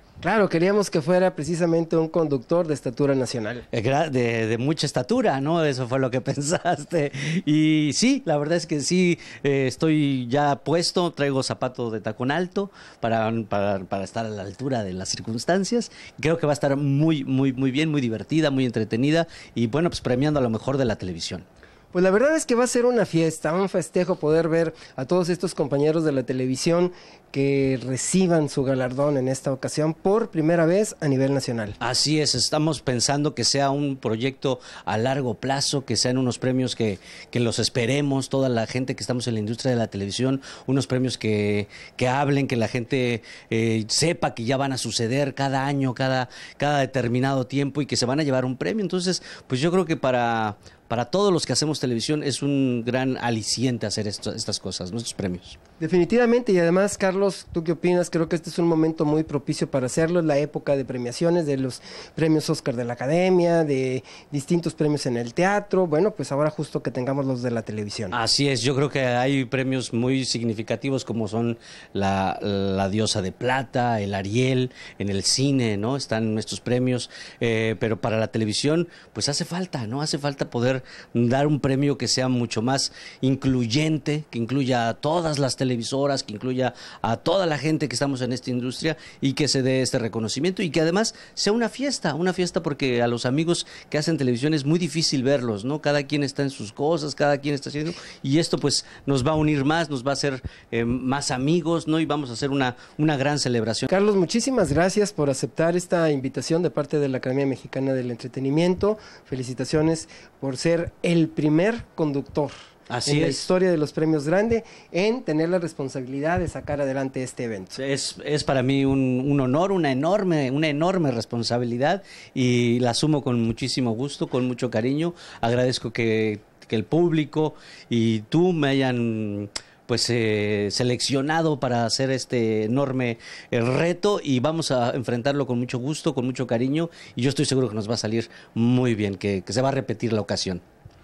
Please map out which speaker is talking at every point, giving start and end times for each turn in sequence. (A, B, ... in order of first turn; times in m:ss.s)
0:00.2-0:03.6 A
0:03.7-0:21.4 B
0:21.9-0:31.8 A
0:31.8-0:55.6 B
0:55.8-1:08.2 A
1:08.1-1:43.9 B
1:43.9-1:52.5 A
1:52.9-1:53.5 B
1:53.0-1:57.8 A
1:57.8-2:20.6 B